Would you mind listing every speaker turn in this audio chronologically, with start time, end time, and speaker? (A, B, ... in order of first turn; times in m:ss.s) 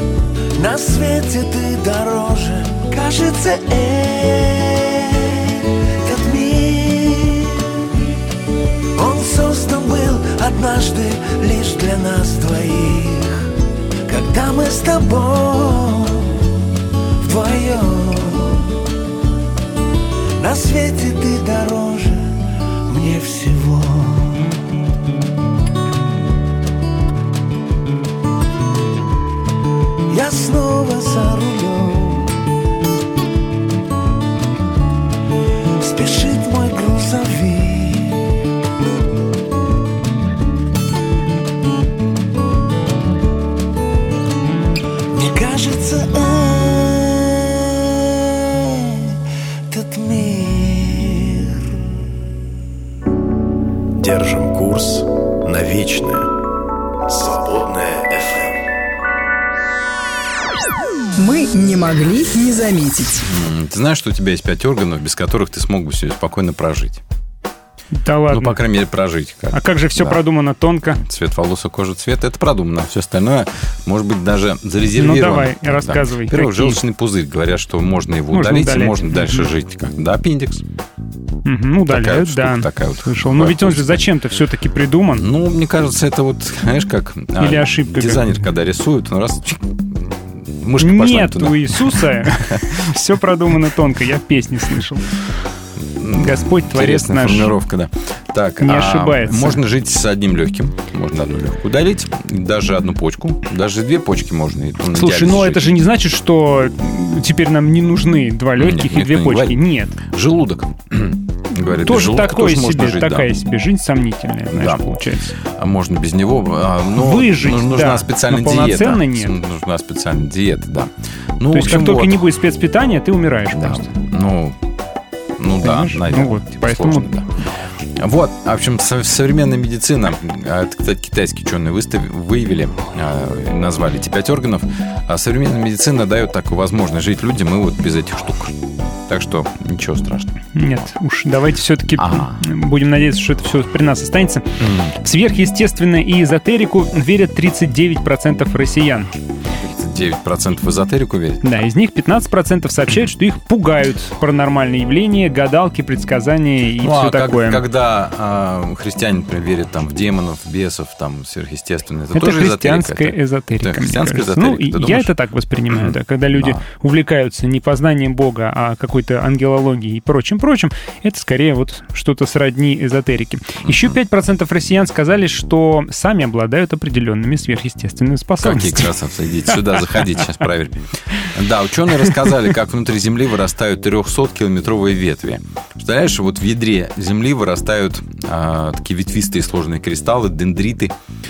0:00.5-0:07.9 A
0:09.0-0:13.5 A
0:14.1-0:16.4 A
0:17.2-0:18.7 A
0:20.4-0:24.5 A
0:30.1-0:32.4 A
0:35.7-0:38.3 A
0:45.1-0:47.9 A
0:49.7-0:51.6 A
0:54.0-0:56.3 B
0:57.1-0:58.6 B
1:01.2-1:03.2 C
1:03.2-1:07.0 D
1:07.9-1:08.6 E
1:08.3-1:10.2 D
1:09.5-1:11.0 E
1:10.9-1:20.6 D
1:14.9-1:16.8 E
1:18.3-1:19.5 E
1:21.4-1:25.2 E
1:21.9-1:24.0 D
1:25.2-1:32.6 D
1:27.4-1:28.3 E
1:30.8-1:35.1 E
1:36.0-1:45.8 D
1:36.2-1:37.5 E
1:38.6-1:39.6 E
1:44.9-1:50.0 E
1:48.6-1:53.3 D
1:51.8-1:55.3 E
1:54.5-1:54.8 D
1:55.4-2:02.2 D
1:57.0-1:59.3 E
2:01.5-2:03.9 E
2:03.5-2:04.6 D
2:05.4-2:07.3 D
2:05.6-2:07.1 E
2:08.0-2:18.5 D
2:19.1-2:20.4 D
2:20.5-2:29.1 E
2:22.0-2:22.4 D
2:24.6-2:24.9 D
2:29.6-2:31.4 D
2:31.4-2:37.6 E
2:36.8-2:45.1 D
2:42.1-2:58.9 E
2:45.7-2:46.6 D
2:53.6-2:54.0 D
2:58.4-3:10.9 D